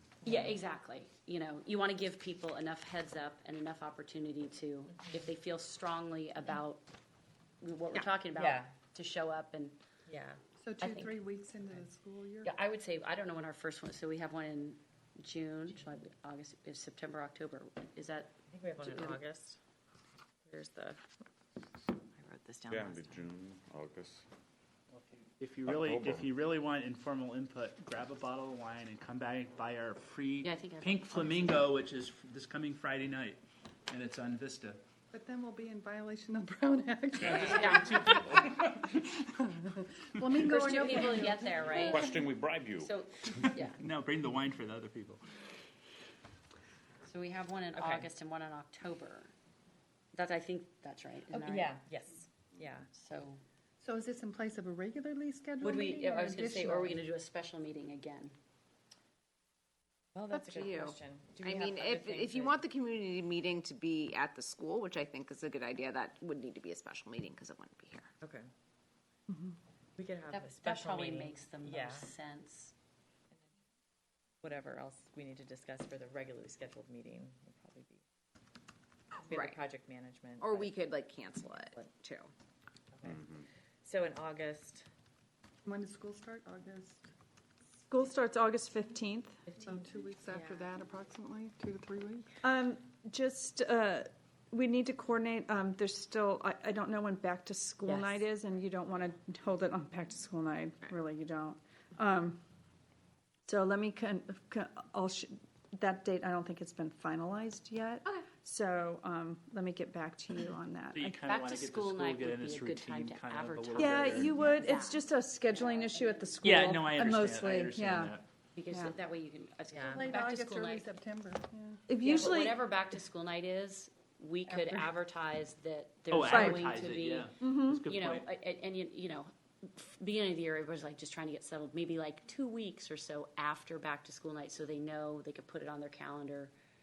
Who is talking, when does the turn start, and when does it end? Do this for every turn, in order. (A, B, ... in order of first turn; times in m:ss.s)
0:00.2-0:06.8 A
0:00.2-0:00.6 B
0:07.6-0:09.8 A
0:08.4-0:08.7 B
0:10.1-0:10.4 B
0:10.6-0:12.6 C
0:10.8-0:11.2 A
0:12.4-0:19.2 A
0:18.5-0:19.6 B
0:20.4-0:21.1 B
0:22.2-0:23.3 B
0:22.7-0:24.2 D
0:24.9-0:34.8 E
0:25.7-0:26.3 D
0:30.4-0:31.6 A
0:35.1-0:42.2 C
0:37.6-0:38.2 A
0:37.8-0:38.9 E
0:40.5-0:42.3 A
0:41.9-0:42.9 D
0:42.8-0:43.8 A
0:43.3-0:45.2 E
0:47.0-0:49.3 A
0:47.8-0:48.1 B
0:50.1-0:51.8 A
0:51.3-0:52.9 B
0:52.9-0:53.4 A
0:53.8-0:57.1 C
0:55.6-0:58.4 A
1:00.2-1:02.6 B
1:00.3-1:08.1 F
1:08.2-1:08.5 B
1:09.3-1:09.6 G
1:10.0-1:12.1 B
1:10.3-1:12.7 A
1:14.4-1:18.0 B
1:19.2-1:19.6 F
1:19.2-1:20.8 B
1:20.4-1:22.3 F
1:22.9-1:24.9 B
1:25.6-1:27.1 C
1:27.9-1:29.4 G
1:29.6-1:32.3 C
1:30.3-1:30.8 B
1:32.4-1:42.4 G
1:37.8-1:38.2 B
1:43.5-1:51.2 G
1:50.9-1:54.4 E
1:51.3-1:56.6 A
1:53.7-1:58.2 G
1:56.4-1:58.3 E
1:58.6-2:00.9 A
1:58.7-1:59.0 G
1:59.7-2:00.0 B
1:59.8-2:02.0 C
2:01.9-2:02.9 G
2:02.0-2:16.5 A
2:06.1-2:08.3 E
2:06.3-2:06.7 G
2:07.4-2:07.9 G